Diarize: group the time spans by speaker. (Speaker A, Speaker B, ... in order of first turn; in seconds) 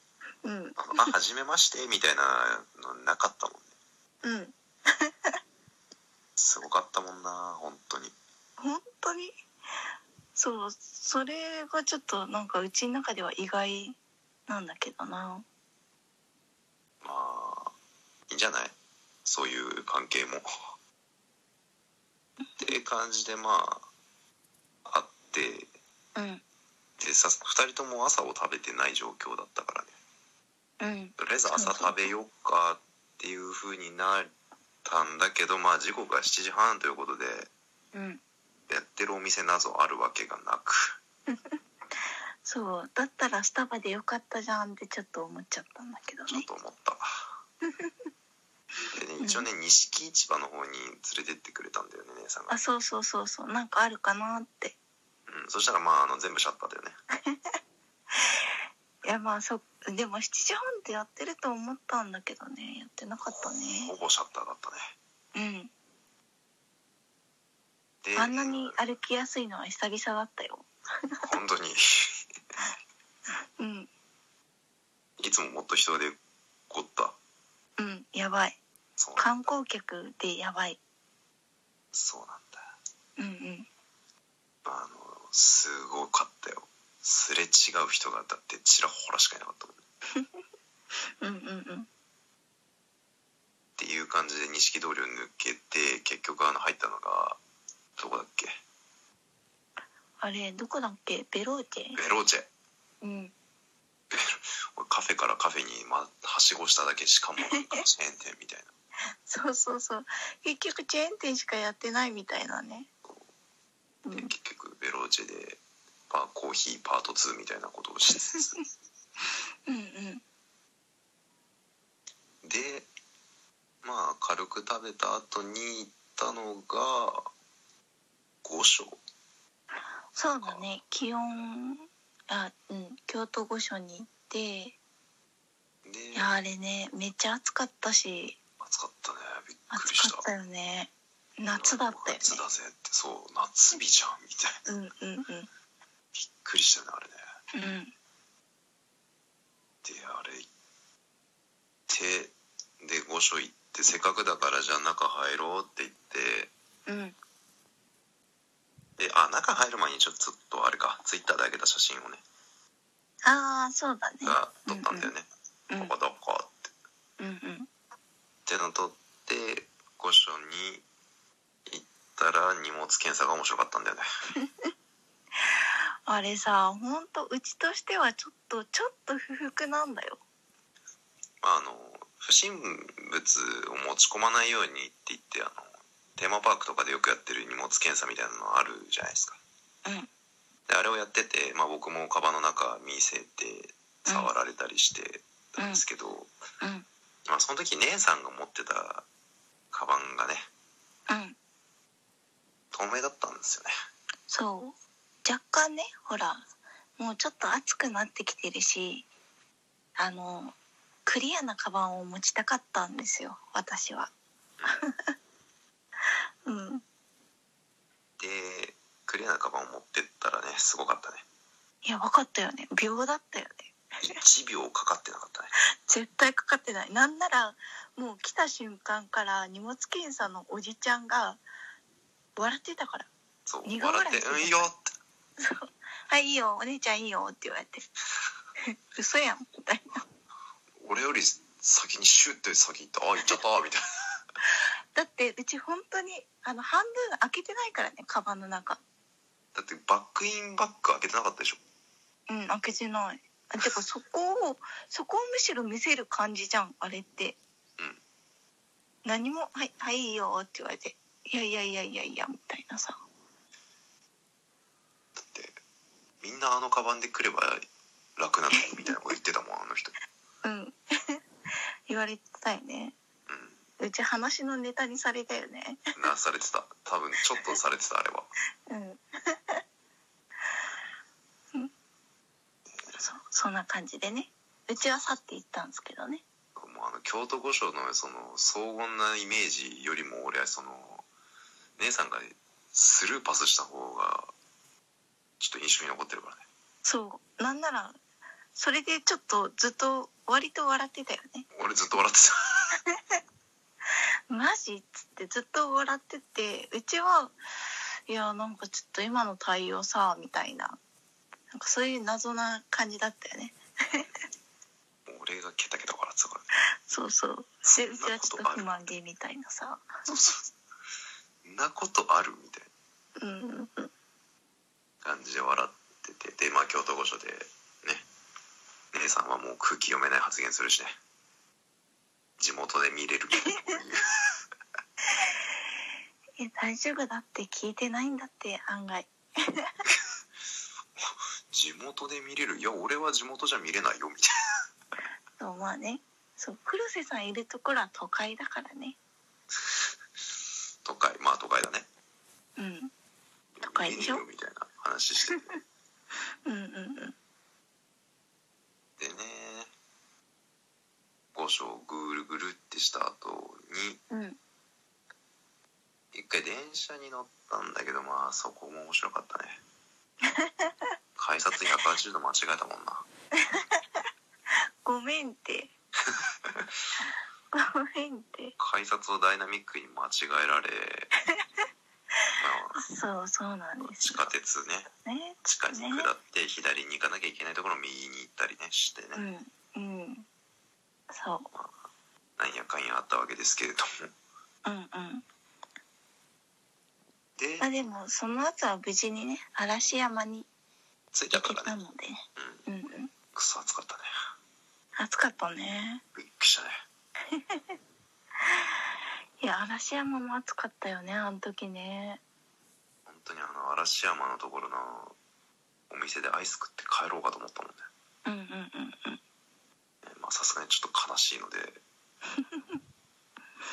Speaker A: 0.4-1.1, 4.2-5.3, 8.6-9.3, 10.3-14.0, 14.5-15.4, 26.1-26.4, 30.8-32.0, 37.9-38.2, 41.3-41.6, 42.4-46.5, 47.7-47.9, 49.2-49.5, 52.5-54.8, 57.2-57.5, 58.2-58.4, 59.0-63.9, 65.3-65.7, 68.2-71.2, 73.6-73.9, 77.8-78.6, 79.2-80.8, 83.2-83.7, 91.2-91.9, 100.2-102.0, 103.0-103.3, 107.5-107.8, 109.2-112.9, 114.0-114.3, 119.7-120.2, 130.1-134.8, 136.1-138.4, 139.7-142.4, 144.7-145.5, 147.5-147.9, 156.9-157.1, 163.2-165.1, 167.2-167.7, 176.1-180.2, 195.6-195.8, 201.1-201.4, 204.3-206.4, 207.0-209.1, 210.0-214.1, 214.7-215.1, 216.4-216.8, 221.8-224.2, 225.9-231.4, 232.3-233.1, 233.7-234.7, 235.4-237.8, 238.9-240.0, 244.9-248.8, 252.3-257.4, 259.0-263.0, 268.5-268.9, 270.4-271.2, 271.9-272.9, 273.8-275.9, 278.7-279.6, 282.9-286.2, 296.8-298.0, 298.5-301.5, 304.3-307.4, 308.1-310.8, 311.5-314.1, 316.9-319.9, 323.2-323.9, 336.4-339.7, 345.4-349.0, 352.6-352.9, 353.6-354.2, 356.4-357.1, 364.1-364.4, 370.3-370.7, 373.5-374.0, 374.8-375.7, 377.5-378.5, 382.7-384.2, 385.0-386.1, 389.1-390.3, 391.1-391.5, 394.6-395.2, 397.6-400.5, 401.3-403.1, 405.0-406.0, 407.3-407.8, 409.4-412.2, 418.2-419.2, 422.4-422.8
Speaker B: 0.8-3.7, 6.4-8.1, 17.0-17.7, 18.3-20.5, 22.6-23.9, 24.8-25.7, 27.0-29.9, 31.2-34.3, 34.8-37.5, 38.7-41.0, 46.3-47.4, 48.9-52.6, 55.3-57.0, 63.2-64.9, 68.0-68.8, 71.2-71.8, 75.2-76.2, 76.7-77.2, 79.0-79.5, 81.9-82.6, 84.6-89.8, 93.8-97.4, 98.0-98.6, 101.9-102.5, 104.1-108.7, 114.1-118.5, 122.4-122.9, 123.8-127.3, 128.4-129.0, 130.4-130.7, 135.8-136.3, 138.6-140.3, 141.5-144.6, 146.1-147.2, 149.8-150.5, 151.9-156.5, 159.0-162.2, 164.2-166.7, 168.4-170.8, 171.7-174.1, 181.4-189.4, 190.7-196.3, 197.3-199.1, 199.7-200.5, 202.7-203.7, 218.2-221.2, 224.0-225.5, 233.5-234.9, 240.8-243.8, 249.5-251.6, 265.2-265.6, 266.2-267.6, 268.2-269.9, 273.3-273.6, 275.9-278.3, 286.6-291.1, 291.8-294.3, 295.4-296.4, 301.5-302.8, 315.1-316.5, 317.7-318.7, 320.1-320.4, 321.4-322.7, 325.0-328.0, 328.9-330.9, 332.4-334.0, 341.5-344.3, 350.8-351.9, 353.6-355.6, 359.0-359.7, 361.3-364.0, 366.1-369.6, 371.1-373.0, 378.6-381.1, 382.4-382.8, 383.8-384.9, 385.4-389.2, 392.4-394.1, 397.4-397.7, 401.1-401.8, 402.4-402.6, 403.3-404.1, 406.1-406.8, 413.1-415.1, 415.9-417.9, 420.0-421.8